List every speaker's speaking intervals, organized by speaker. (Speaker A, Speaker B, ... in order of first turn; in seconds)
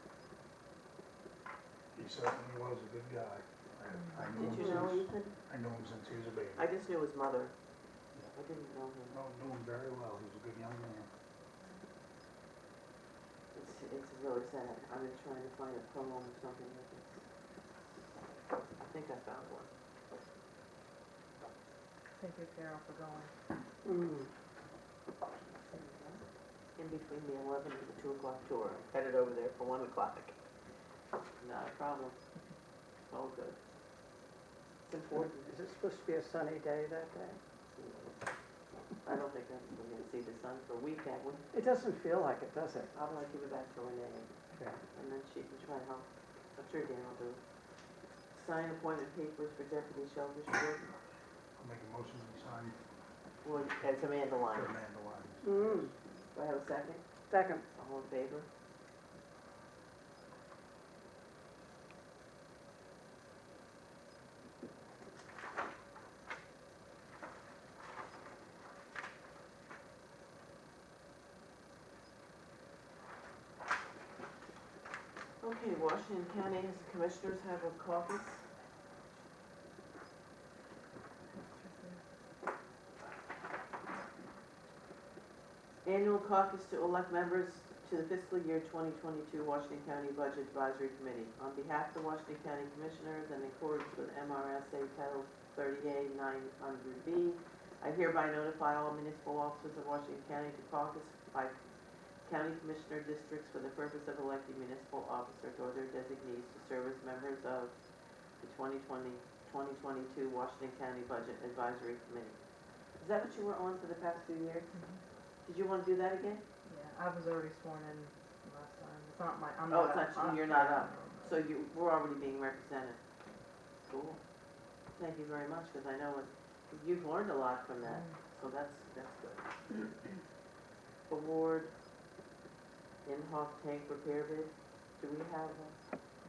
Speaker A: 1.9-6.7, 9.1-11.1, 51.6-52.8, 54.5-55.6
Speaker B: 4.0-4.6, 22.2-23.3, 25.7-26.2, 81.3-82.0, 114.7-115.0, 116.7-121.4, 127.9-128.2
Speaker C: 4.3-5.3, 6.6-7.5, 8.3-9.2, 13.5-17.2, 18.8-19.7, 26.8-30.4, 31.4-32.2, 33.1-33.6, 34.9-35.6, 37.7-38.1, 39.0-41.5, 42.9-44.3, 44.9-47.4, 48.3-51.0, 53.4-54.7, 56.3-57.0, 57.8-58.5, 75.4-78.5, 85.8-101.6, 102.2-107.7, 108.4-112.4, 113.0-114.7, 115.5-116.4, 119.7-123.0, 123.9-124.2, 124.9-129.9, 131.1-131.7, 133.1-135.8
Speaker D: 23.9-24.3, 35.5-37.4, 41.5-42.9, 44.5-44.8, 55.4-55.9, 57.3-57.6